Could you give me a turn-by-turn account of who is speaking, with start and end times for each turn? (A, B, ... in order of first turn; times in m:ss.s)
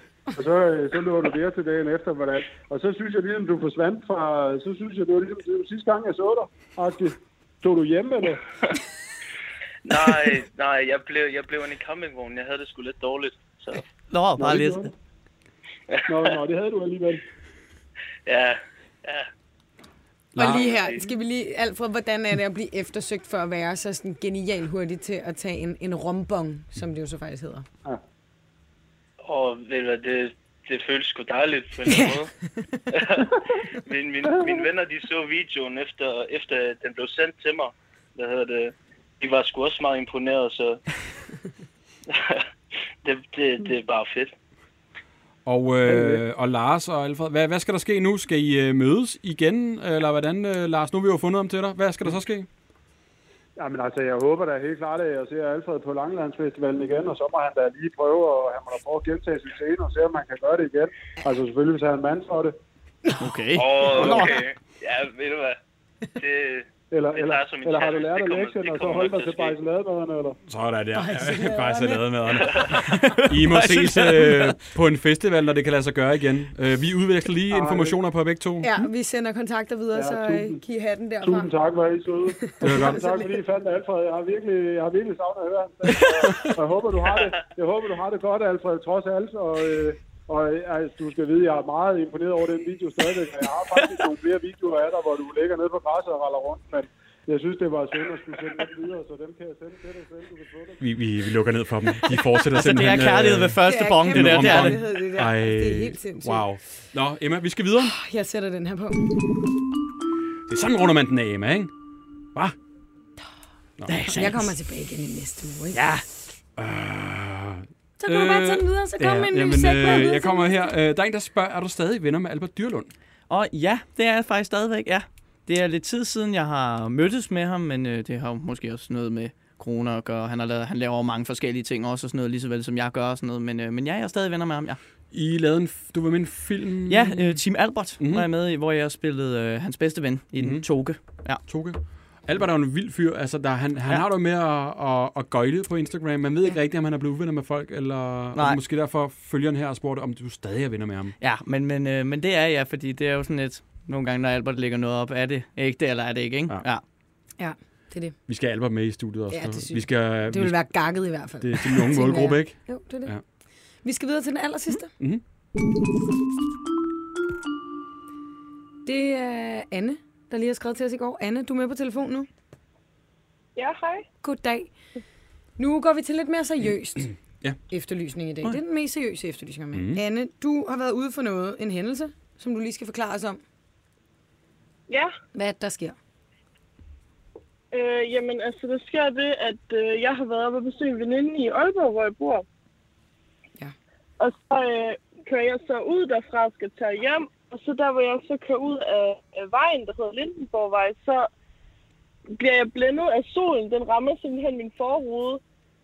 0:00.3-0:08.4 A
0:09.8-0:13.8 B
0:14.1-0:14.9 C
0:14.4-0:14.9 A
0:15.9-0:16.4 B
0:16.1-0:17.2 A
0:18.3-0:19.3 B
0:20.4-0:20.7 D
0:20.4-0:27.7 E
0:20.4-0:21.1 B
0:29.2-0:32.3 B
0:31.9-0:32.8 E
0:32.9-0:40.8 B
0:42.1-0:42.4 B
0:43.0-0:44.3 B
0:45.5-0:52.5 D
0:45.8-0:46.2 A
0:53.6-1:02.6 A
1:03.2-1:04.4 C
1:03.5-1:05.6 B
1:06.2-1:09.6 B
1:06.9-1:10.4 A
1:10.5-1:18.7 D
1:10.9-1:12.4 E
1:12.7-1:14.6 C
1:17.5-1:18.0 A
1:18.6-1:21.5 E
1:20.0-1:20.6 A
1:21.2-1:40.8 A
1:22.4-1:23.3 E
1:22.6-1:23.1 D
1:26.3-1:26.6 D
1:40.8-1:48.0 D
1:42.5-1:44.8 C
1:43.6-1:46.4 E
1:47.8-1:49.1 E
1:50.5-1:51.7 D
1:53.8-1:54.2 D
1:53.9-1:54.5 C
1:54.1-1:55.8 E
1:55.7-1:56.0 C
1:56.6-2:02.9 D
1:58.0-2:00.7 E
2:03.3-2:14.8 C
2:15.1-2:17.4 D
2:16.9-2:21.4 C
2:18.0-2:18.3 D
2:20.4-2:31.1 D
2:28.4-2:28.6 C
2:31.2-2:36.8 C
2:37.4-2:38.2 E
2:38.3-2:40.6 D
2:39.3-2:43.1 E
2:41.4-2:43.2 D
2:43.8-2:44.9 E
2:48.8-2:52.3 E
2:53.6-2:54.1 F
2:54.2-2:54.7 E
2:55.6-2:57.1 E
2:57.7-3:03.4 E
2:59.7-3:00.0 D
3:04.9-3:05.1 F
3:05.3-3:06.0 E
3:07.7-3:12.4 F
3:14.2-3:21.3 F
3:22.4-3:25.4 F